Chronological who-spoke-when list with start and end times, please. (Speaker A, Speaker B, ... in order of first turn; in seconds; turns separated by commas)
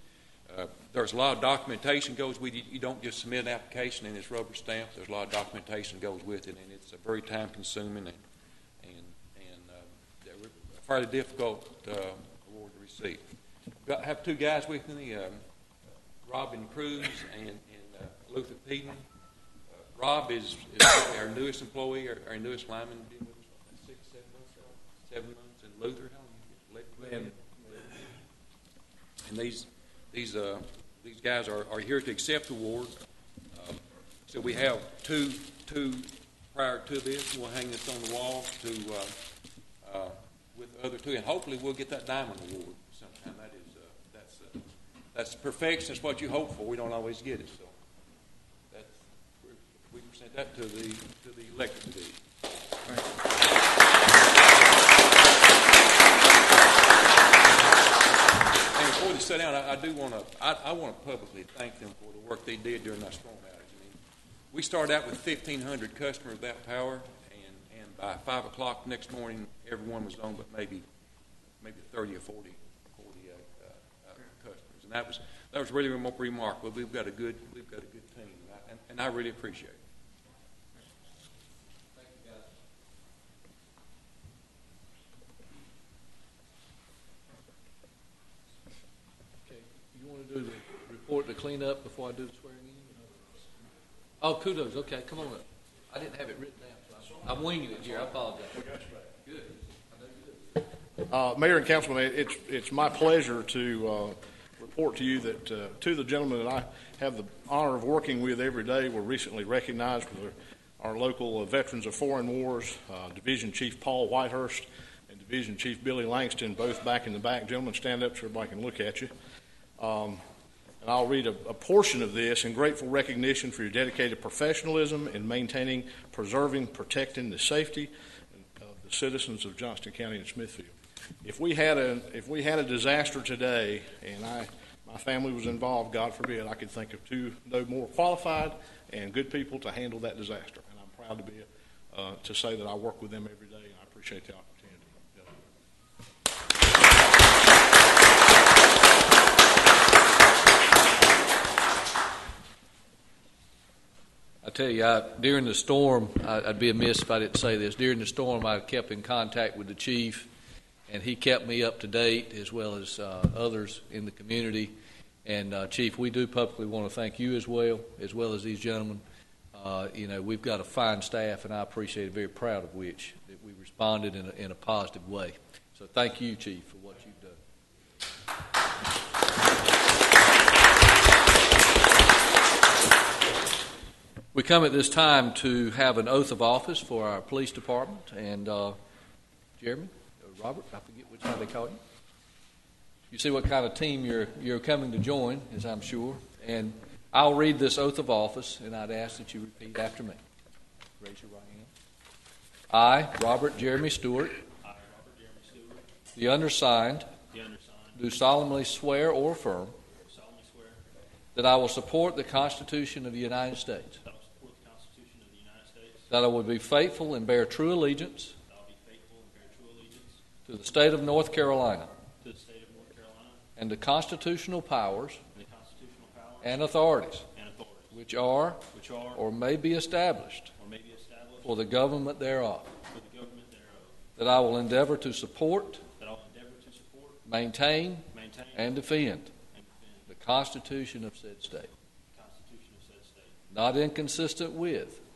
Speaker A: 0.5-8.2, Speaker A: 8.8-13.2, Speaker A: 13.8-15.4, Speaker A: 16.2-19.0, Speaker A: 19.8-28.1, Speaker A: 29.2-33.0, Speaker A: 33.5-39.2, Speaker A: 39.8-44.6, Speaker A: 45.1-47.7, Speaker A: 48.7-52.2, Speaker A: 58.6-64.0, Speaker A: 64.5-70.8, Speaker A: 71.6-79.8, Speaker B: 82.0-82.4, Speaker B: 89.5-93.3, Speaker B: 94.2-100.6, Speaker C: 101.1-119.1, Speaker C: 119.8-120.2, Speaker C: 120.8-145.4, Speaker B: 154.4-160.3, Speaker B: 160.9-169.0, Speaker B: 169.5-177.3, Speaker B: 184.3-188.8, Speaker B: 189.6-191.8, Speaker B: 193.1-200.2, Speaker B: 201.0-201.7, Speaker B: 202.7-204.4, Speaker D: 204.6-205.9, Speaker B: 206.1-207.1, Speaker D: 207.3-208.0, Speaker B: 207.9-209.8, Speaker D: 210.0-210.8, Speaker B: 211.3-214.0, Speaker D: 214.0-216.1, Speaker B: 216.1-218.3, Speaker D: 218.5-220.2, Speaker B: 220.4-221.9, Speaker D: 222.2-223.4, Speaker B: 223.6-225.2, Speaker D: 225.3-226.6, Speaker B: 226.4-227.2, Speaker D: 227.3-227.9, Speaker B: 227.9-230.5, Speaker D: 228.7-229.2, Speaker D: 230.6-231.6, Speaker B: 231.4-232.7, Speaker D: 232.9-234.0, Speaker B: 234.2-235.8, Speaker D: 236.0-237.2, Speaker B: 237.2-239.3, Speaker D: 238.1-238.8, Speaker D: 239.5-240.1, Speaker B: 240.1-241.7, Speaker D: 242.1-243.4, Speaker B: 243.5-245.0